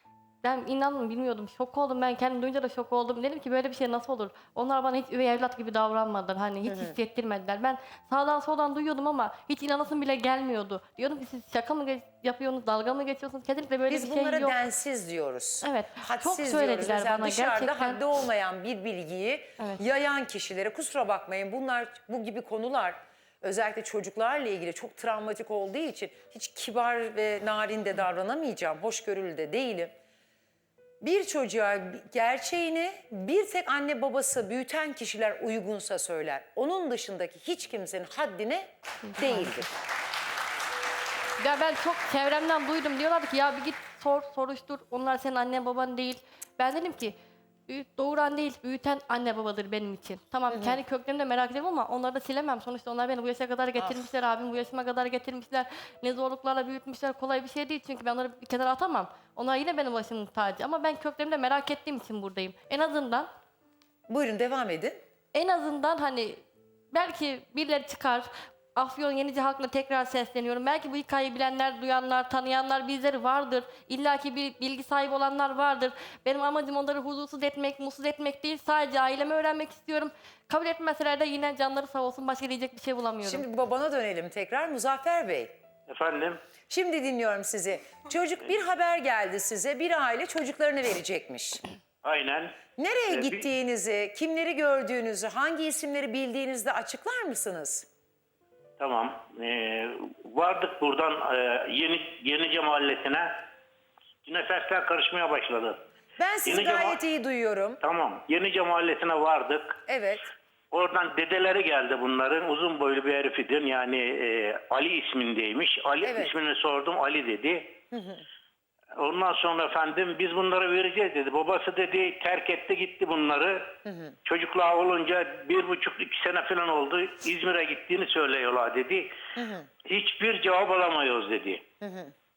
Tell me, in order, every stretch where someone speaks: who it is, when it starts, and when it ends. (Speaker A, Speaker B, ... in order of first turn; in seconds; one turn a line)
Speaker A: 0.4-14.6
Speaker B: 6.7-7.0
Speaker B: 13.9-29.9
Speaker A: 15.6-18.0
Speaker B: 31.0-39.7
Speaker A: 39.0-39.7
Speaker A: 41.4-47.2
Speaker A: 47.7-63.3
Speaker B: 50.5-50.8
Speaker B: 53.8-54.1
Speaker B: 64.1-65.0
Speaker A: 65.3-83.5
Speaker B: 83.2-85.5
Speaker C: 85.9-86.4
Speaker B: 86.7-91.6
Speaker C: 92.0-92.6
Speaker B: 92.8-97.9
Speaker C: 93.1-93.5
Speaker C: 98.8-103.5
Speaker C: 104.2-105.8
Speaker B: 106.2-107.8
Speaker C: 106.5-107.0
Speaker C: 107.8-109.8
Speaker B: 109.9-110.3
Speaker C: 110.7-117.8
Speaker B: 116.0-116.3
Speaker B: 117.9-118.3
Speaker C: 119.0-123.8
Speaker B: 123.8-124.2
Speaker C: 124.3-129.1
Speaker B: 129.4-129.7
Speaker C: 129.9-131.6
Speaker B: 131.8-132.1